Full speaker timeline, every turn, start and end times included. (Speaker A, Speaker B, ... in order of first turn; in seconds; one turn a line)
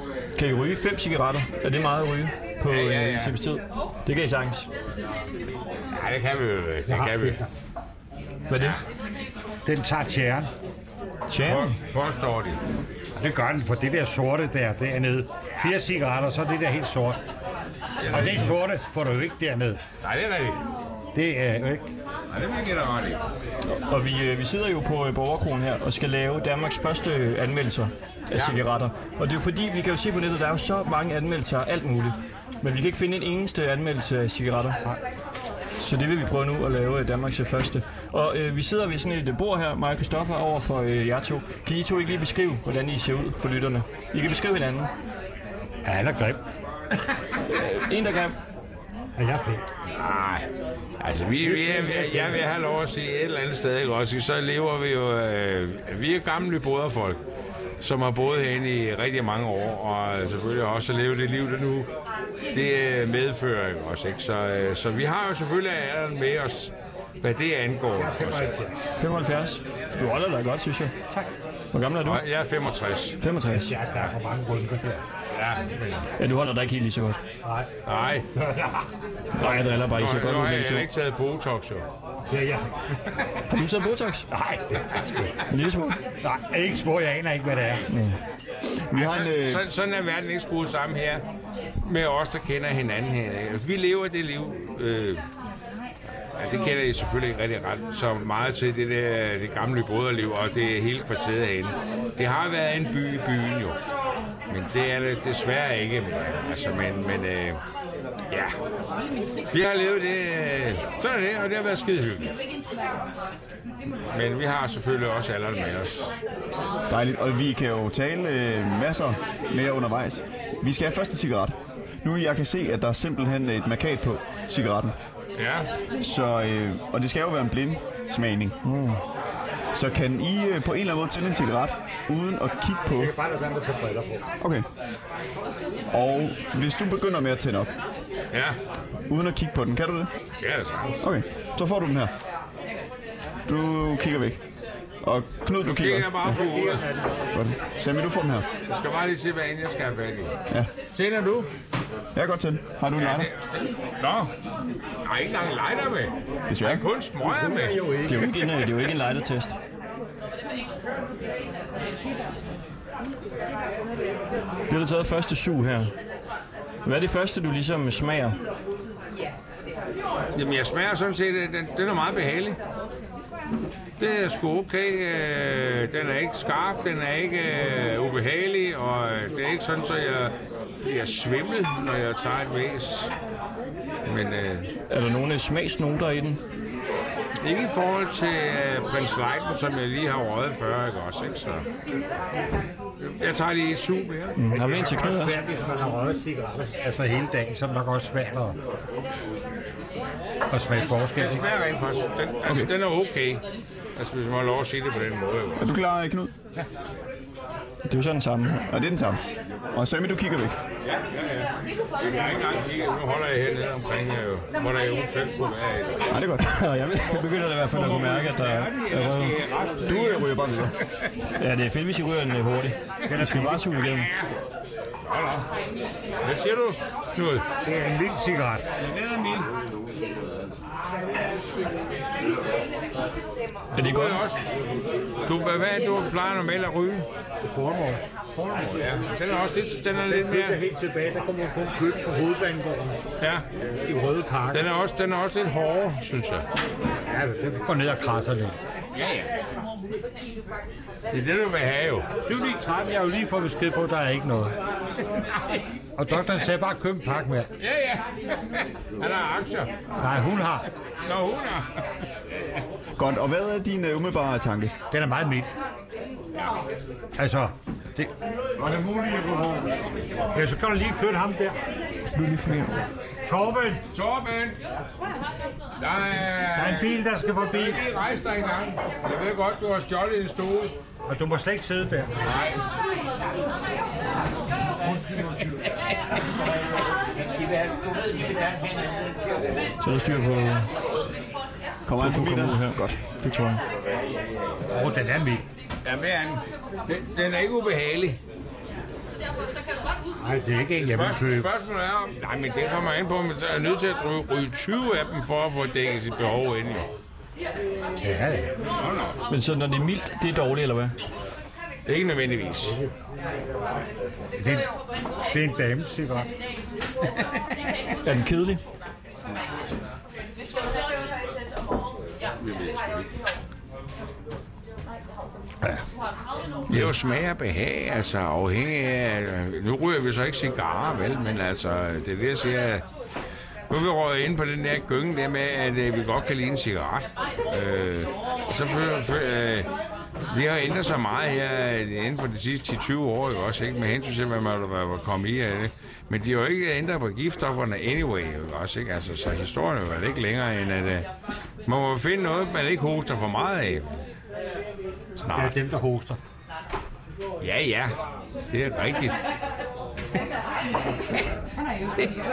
Speaker A: 0.3-4.7
Speaker B: 2.6-3.3
Speaker B: 5.9-7.4
Speaker C: 6.9-7.4
Speaker A: 8.5-8.8
Speaker C: 9.7-10.5
Speaker A: 11.3-11.8
Speaker B: 11.4-12.6
Speaker C: 13.2-17.2
Speaker B: 18.0-18.5
Speaker C: 18.1-19.8
Speaker B: 20.0-20.6
Speaker C: 21.1-21.9
Speaker B: 22.3-23.2
Speaker A: 23.9-34.8
Speaker A: 35.8-44.9
Speaker C: 45.8-46.4
Speaker A: 47.5-48.4
Speaker C: 49.2-49.6
Speaker B: 49.9-50.5
Speaker B: 51.0-57.2
Speaker C: 51.4-52.4
Speaker B: 57.8-61.9
Speaker B: 62.5-68.5
Speaker C: 68.0-68.8
Speaker A: 69.0-70.9
Speaker A: 71.7-72.2
Speaker B: 72.0-73.2
Speaker A: 73.2-73.8
Speaker C: 73.5-75.0
Speaker B: 75.3-76.0
Speaker A: 76.2-77.2
Speaker C: 77.4-77.7
Speaker B: 77.8-78.3
Speaker C: 78.3-78.8
Speaker A: 79.3-80.9
Speaker B: 79.4-81.8
Speaker C: 82.3-82.7
Speaker A: 83.5-84.3
Speaker C: 84.3-85.3
Speaker A: 85.5-86.0
Speaker C: 86.2-87.8
Speaker A: 87.9-88.2
Speaker D: 88.8-89.6
Speaker B: 88.9-91.2
Speaker B: 91.8-95.2
Speaker B: 96.4-103.8
Speaker B: 104.5-107.6
Speaker B: 109.5-112.4
Speaker B: 114.1-116.1
Speaker D: 116.9-124.9
Speaker B: 125.4-125.7
Speaker D: 126.0-128.6
Speaker A: 128.6-129.0
Speaker D: 129.7-133.1
Speaker C: 132.9-134.2
Speaker D: 134.4-134.6
Speaker D: 135.9-137.7
Speaker B: 138.3-138.6
Speaker D: 139.1-140.1
Speaker B: 140.4-140.9
Speaker D: 141.0-142.1
Speaker D: 143.5-144.4
Speaker D: 145.0-146.3
Speaker B: 145.6-146.8
Speaker C: 146.3-147.2
Speaker D: 147.3-148.5
Speaker B: 148.7-150.4
Speaker B: 150.9-151.5
Speaker D: 152.1-153.3
Speaker B: 152.9-154.3
Speaker B: 155.0-157.9
Speaker D: 156.5-156.9
Speaker C: 157.2-158.6
Speaker A: 158.1-159.6
Speaker A: 164.7-165.9
Speaker A: 166.8-168.3
Speaker B: 170.3-172.6
Speaker B: 174.0-183.1
Speaker B: 184.0-184.7
Speaker A: 184.9-186.4
Speaker B: 187.4-191.7
Speaker B: 193.2-194.4
Speaker A: 194.4-195.4
Speaker C: 194.5-198.6
Speaker C: 200.5-201.4
Speaker B: 200.9-203.4
Speaker D: 202.4-202.7
Speaker B: 203.9-205.7
Speaker D: 205.6-206.3
Speaker A: 207.8-208.7
Speaker D: 208.7-209.2
Speaker D: 209.7-210.6
Speaker B: 210.8-216.1
Speaker D: 216.1-216.6
Speaker A: 216.4-219.3
Speaker B: 217.1-220.5
Speaker D: 219.8-220.7
Speaker A: 221.4-224.1
Speaker C: 223.1-223.7
Speaker B: 223.8-224.3
Speaker B: 225.1-225.5
Speaker B: 226.2-227.4
Speaker C: 227.6-228.6
Speaker B: 228.8-229.5
Speaker B: 233.8-234.4
Speaker A: 233.8-234.2
Speaker B: 235.2-237.1
Speaker C: 237.4-238.9
Speaker B: 238.4-240.6
Speaker C: 240.1-243.0
Speaker B: 243.2-243.4
Speaker C: 243.8-244.6
Speaker B: 244.5-246.4
Speaker C: 247.1-248.6
Speaker B: 248.9-249.3
Speaker B: 251.1-252.1
Speaker C: 252.2-254.6
Speaker C: 256.0-257.5
Speaker B: 257.6-259.7
Speaker C: 260.0-260.7
Speaker B: 261.0-261.7
Speaker D: 263.0-264.7
Speaker C: 264.9-265.5
Speaker C: 267.2-269.7
Speaker B: 268.7-269.1
Speaker C: 270.3-271.6
Speaker A: 272.1-272.8
Speaker C: 273.2-273.8
Speaker B: 273.9-274.6
Speaker B: 275.8-280.7
Speaker C: 276.5-277.8
Speaker C: 281.1-282.3
Speaker B: 282.2-282.6
Speaker A: 289.8-290.7
Speaker D: 291.9-293.0
Speaker A: 292.0-293.6
Speaker C: 294.7-295.4
Speaker B: 295.8-298.2
Speaker C: 300.2-301.5
Speaker B: 300.8-306.9
Speaker C: 308.0-308.5
Speaker B: 308.8-309.1
Speaker A: 309.3-310.9
Speaker B: 311.9-312.8
Speaker C: 314.4-314.6
Speaker C: 315.3-316.3
Speaker A: 318.0-318.6
Speaker B: 322.4-323.1
Speaker A: 326.7-326.9
Speaker B: 326.7-332.8
Speaker B: 333.7-339.7
Speaker B: 340.3-351.1
Speaker B: 351.6-353.9
Speaker B: 355.2-355.6
Speaker C: 355.3-356.2
Speaker B: 357.4-357.9
Speaker B: 358.5-359.1